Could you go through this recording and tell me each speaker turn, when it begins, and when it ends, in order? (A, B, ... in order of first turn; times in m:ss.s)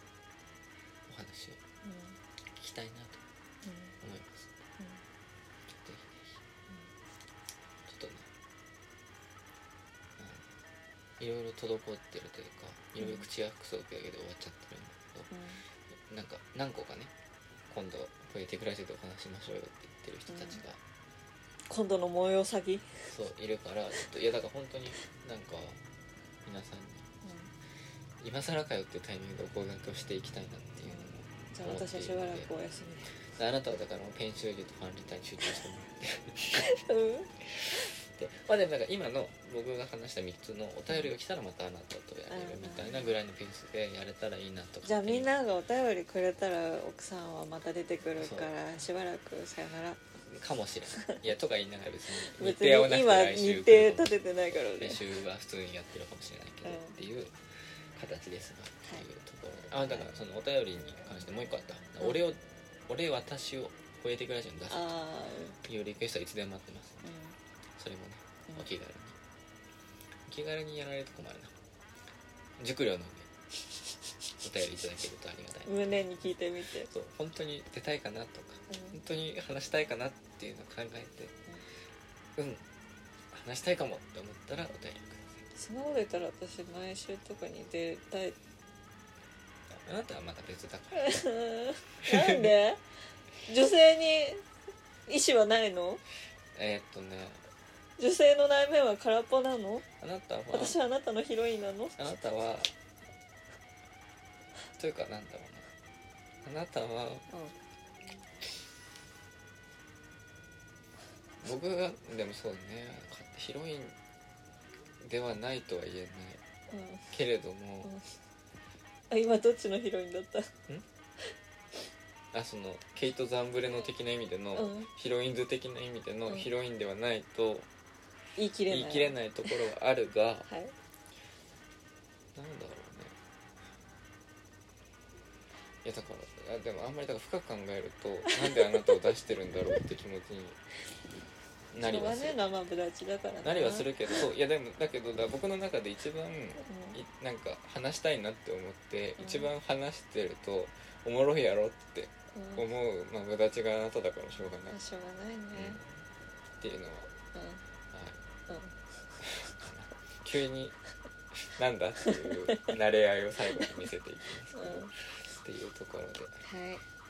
0:01.1-0:01.6 A
0:01.8-0:02.2 B
0:02.6-0:03.2 A
0:03.6-0:04.0 B
0:04.0-0:04.5 A
0:05.7-0:06.2 A
0:07.9-0:08.3 A
0:10.2-0:10.5 A
0:11.2-0:15.3 A
0:13.0-0:13.3 B
0:15.3-0:15.6 B
0:16.1-0:17.1 A
0:17.7-0:20.8 A
0:20.3-0:20.6 B
0:21.7-0:23.1 B
0:23.1-0:25.8 A
0:26.4-0:27.1 A
0:27.2-0:27.5 B
0:28.2-0:32.5 A
0:30.9-0:33.2 B
0:33.3-0:36.7 A
0:36.6-0:37.3 B
0:37.5-0:45.3 A
0:42.3-0:43.1 B
0:44.8-0:50.0 B
0:48.2-0:48.5 A
0:50.2-0:57.4 A
0:51.0-0:51.2 B
0:52.1-0:55.1 B
0:56.6-0:57.0 B
0:58.0-1:04.9 A
1:04.7-1:05.6 B
1:05.6-1:07.0 A
1:07.0-1:07.4 B
1:07.8-1:09.2 A
1:10.3-1:11.5 A
1:12.6-1:13.3 A
1:14.4-1:16.0 A
1:15.6-1:16.9 B
1:16.9-1:21.3 A
1:18.7-1:19.0 B
1:22.4-1:22.6 A
1:23.3-1:25.4 A
1:25.6-1:28.4 B
1:29.7-1:31.2 A
1:30.9-1:32.8 B
1:32.0-1:32.6 A
1:33.4-1:34.4 B
1:35.1-1:36.0 B
1:36.5-1:37.4 A
1:38.0-1:39.8 B
1:40.0-1:40.8 A
1:40.5-1:42.0 B
1:42.0-1:42.7 A
1:44.8-1:45.7 A
1:46.4-1:47.3 A
1:51.4-1:54.0 A
1:55.0-1:56.4 A
1:56.7-1:57.1 B
1:57.1-1:57.9 A
1:59.1-2:00.5 B
2:02.3-2:07.7 A
2:04.6-2:04.9 B
2:08.4-2:09.6 B
2:08.7-2:10.5 A
2:10.4-2:10.7 B
2:12.3-2:13.2 A
2:15.8-2:20.6 A
2:18.3-2:19.1 B
2:21.7-2:22.4 A
2:21.8-2:24.2 B
2:23.4-2:34.7 A
2:26.6-2:27.0 B
2:29.2-2:29.5 B
2:32.3-2:32.7 B
2:34.7-2:35.8 B
2:35.5-2:35.9 A
2:36.6-2:37.1 A
2:37.3-2:37.6 B
2:37.9-2:38.2 A
2:38.5-2:38.8 B
2:39.2-2:40.8 A
2:41.3-2:46.4 A
2:42.0-2:42.7 B
2:44.5-2:44.9 B
2:46.4-2:46.8 B